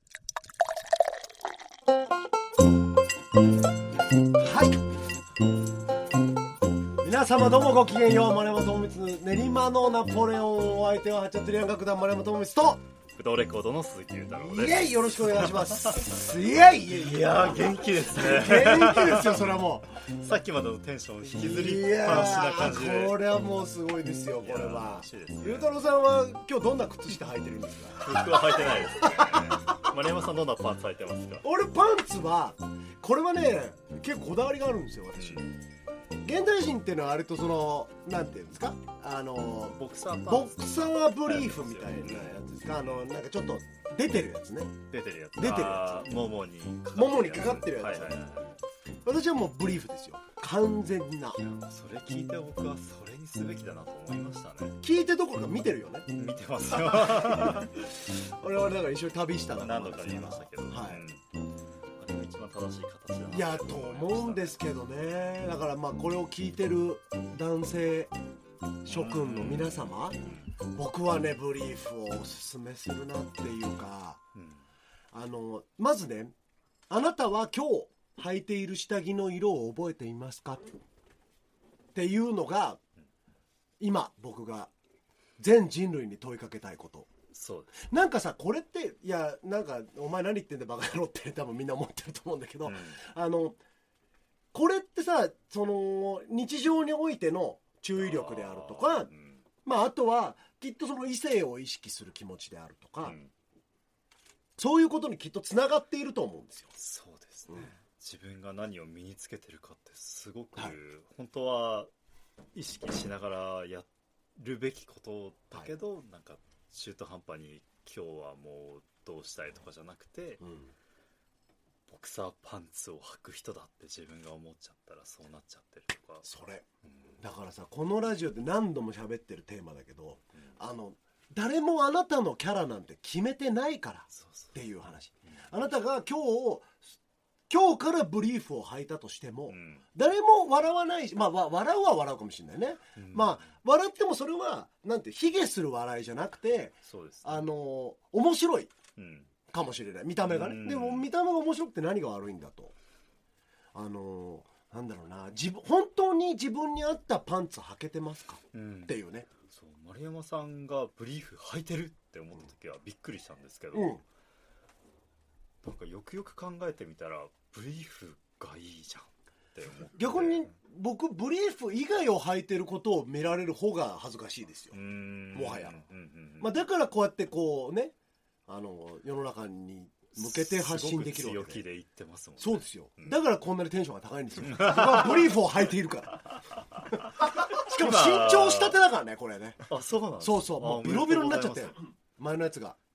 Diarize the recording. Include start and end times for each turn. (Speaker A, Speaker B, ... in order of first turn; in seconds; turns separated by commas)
Speaker A: 4.4-4.8, Speaker A: 7.0-12.8, Speaker B: 13.2-16.1, Speaker A: 14.3-19.9, Speaker B: 16.9-23.2, Speaker A: 21.3-29.8, Speaker B: 24.4-25.8, Speaker B: 28.0-31.4, Speaker A: 31.4-35.5, Speaker B: 35.2-35.5, Speaker A: 36.2-44.8, Speaker B: 39.8-43.1, Speaker B: 44.9-48.5, Speaker A: 45.4-46.0, Speaker A: 46.9-48.1, Speaker A: 49.0-51.4, Speaker B: 51.4-54.8, Speaker A: 54.8-56.1, Speaker B: 56.1-57.7, Speaker A: 56.9-57.7, Speaker A: 58.4-61.0, Speaker B: 59.5-61.2, Speaker B: 62.0-64.6, Speaker A: 63.3-68.1, Speaker A: 68.8-70.2, Speaker B: 68.9-70.5, Speaker A: 70.7-74.2, Speaker B: 74.3-74.6, Speaker A: 75.1-76.3, Speaker A: 76.9-80.7, Speaker A: 81.9-82.8, Speaker A: 83.8-84.7, Speaker A: 85.4-87.1, Speaker B: 87.3-87.9, Speaker A: 87.8-93.6, Speaker B: 92.6-93.0, Speaker A: 94.5-99.1, Speaker B: 98.0-99.4, Speaker A: 99.6-103.2, Speaker B: 103.0-103.3, Speaker A: 104.6-106.7, Speaker B: 106.8-111.9, Speaker B: 112.5-120.4, Speaker A: 120.4-120.7, Speaker B: 121.9-126.3, Speaker A: 126.2-126.6, Speaker B: 126.8-127.2, Speaker A: 127.2-136.8, Speaker B: 134.1-134.5, Speaker A: 137.5-148.7, Speaker B: 139.5-139.8, Speaker B: 142.9-143.5, Speaker B: 146.8-147.5, Speaker B: 149.0-149.3, Speaker A: 149.5-152.7, Speaker B: 150.2-151.1, Speaker A: 153.7-159.3, Speaker B: 158.5-158.9, Speaker B: 159.5-164.0, Speaker A: 163.7-164.0, Speaker B: 165.6-170.4, Speaker A: 169.9-174.8, Speaker B: 174.7-176.6, Speaker A: 175.3-175.8, Speaker A: 176.4-177.9, Speaker A: 178.5-181.6, Speaker B: 180.1-183.2, Speaker A: 182.4-189.6, Speaker B: 184.4-185.3, Speaker B: 187.5-188.8, Speaker B: 189.7-191.7, Speaker A: 190.2-192.8